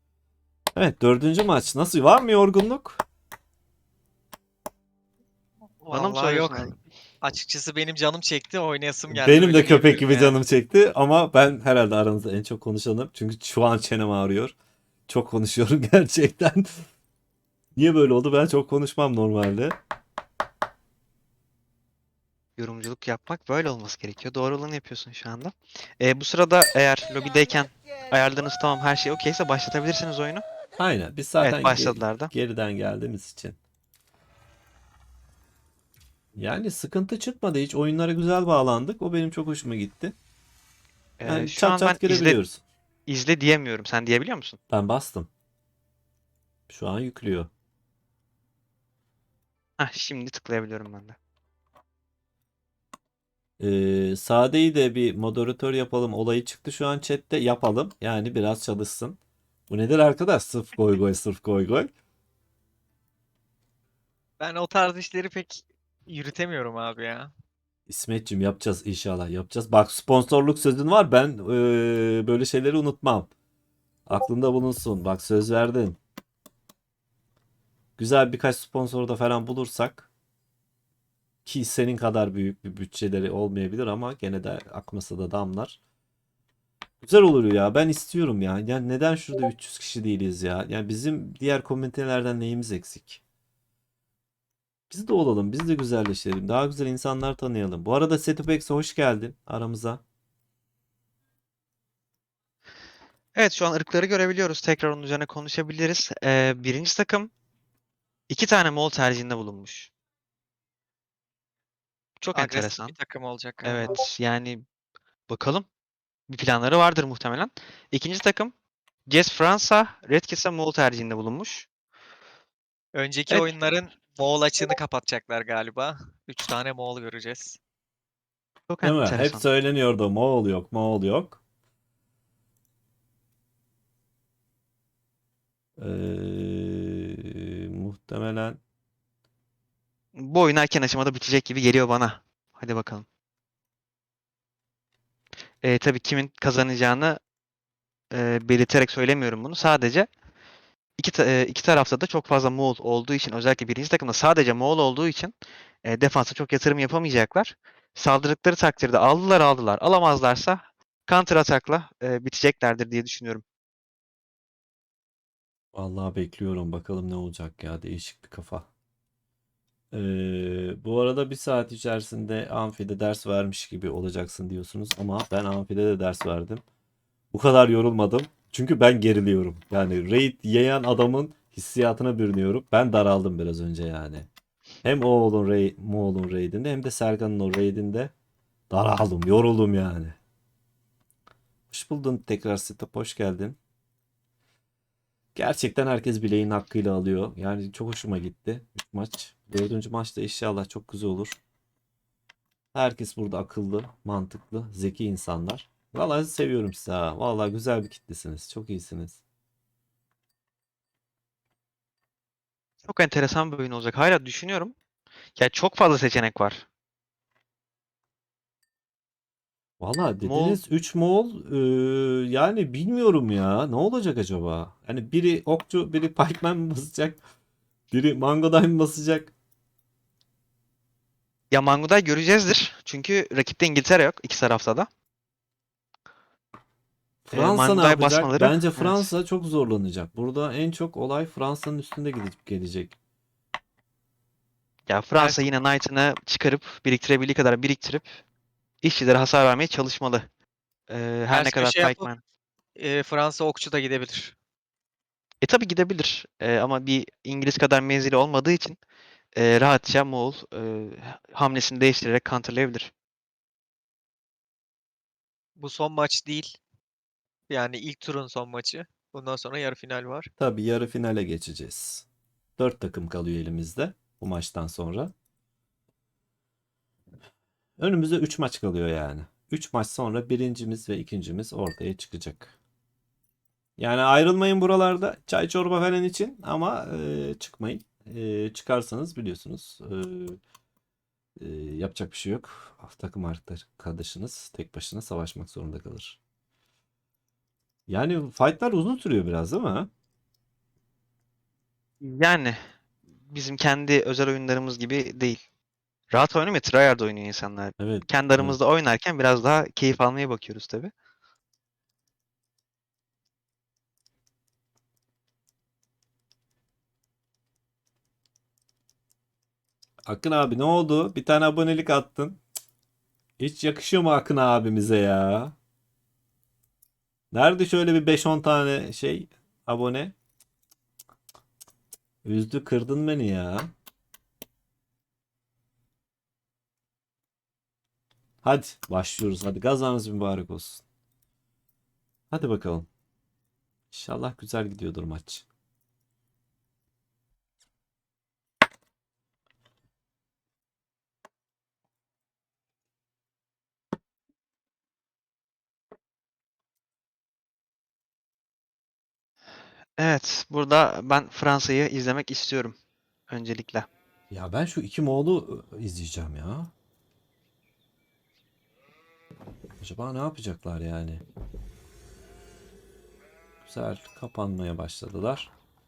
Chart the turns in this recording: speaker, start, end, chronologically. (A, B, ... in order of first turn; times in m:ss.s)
0:00.8-0:03.0 A
0:05.8-0:10.4 B
0:05.9-0:06.7 C
0:09.1-0:14.6 A
0:15.1-0:16.9 A
0:17.8-0:19.8 A
0:22.6-0:30.4 C
0:30.8-0:33.6 A
0:31.4-0:32.3 C
0:36.4-0:40.2 A
0:41.2-0:42.4 C
0:41.3-0:42.6 A
0:43.1-0:44.6 C
0:44.7-0:45.3 A
0:46.7-0:47.5 A
0:49.8-0:51.2 C
0:53.6-0:59.2 A
0:59.7-1:01.9 A
1:04.4-1:07.3 B
1:07.9-1:13.3 A
1:14.1-1:16.0 A
1:18.0-1:20.1 A
1:21.4-1:25.8 A
1:27.0-1:33.2 A
1:34.9-1:40.0 A
1:43.4-1:47.3 C
1:48.3-1:49.9 C
1:52.2-1:53.0 C
1:52.3-1:53.9 B
1:53.6-1:54.6 C
1:55.3-1:55.7 C
1:56.3-1:58.5 C
1:59.1-2:01.7 C
2:03.0-2:07.6 B
2:08.7-2:09.4 C
2:08.8-2:11.4 A
2:15.8-2:18.6 A
2:20.2-2:23.1 C
2:25.6-2:27.2 C
2:28.1-2:30.1 C
2:31.0-2:43.4 C
2:45.8-2:48.7 A
2:49.9-2:56.6 A
2:57.3-3:04.3 A
3:04.8-3:08.1 A
3:08.7-3:10.2 A
3:11.7-3:13.6 A
3:15.4-3:21.4 A
3:22.7-3:29.2 A
3:32.9-3:34.8 C
3:35.4-3:36.7 C
3:39.8-3:47.2 A
3:40.2-3:40.6 C
3:47.9-3:49.3 A
3:51.5-3:54.9 C
3:57.3-4:03.0 A
3:57.3-3:59.1 C
4:04.9-4:08.1 C
4:08.8-4:10.2 C
4:10.9-4:12.2 C
4:11.3-4:12.1 B
4:12.8-4:14.4 B
4:15.4-4:18.8 C
4:19.4-4:22.9 C
4:25.6-4:26.6 B
4:27.5-4:30.3 B
4:30.4-4:32.1 A
4:32.6-4:35.1 A
4:37.8-4:42.6 A
4:43.8-4:50.4 A
4:51.4-4:56.2 A
4:57.9-4:59.9 A
5:02.0-5:02.6 C
5:03.3-5:05.4 C
5:06.1-5:10.9 C
5:07.8-5:08.6 A
5:20.1-5:22.4 A
5:23.4-5:25.6 A
5:27.3-5:30.2 A
5:32.2-5:33.7 A
5:38.4-5:40.8 A
5:42.3-5:42.9 A
5:43.9-5:45.4 A
6:00.0-6:02.8 C
6:03.3-6:03.9 C
6:04.3-6:06.7 A
6:09.8-6:11.2 A
6:13.6-6:15.5 A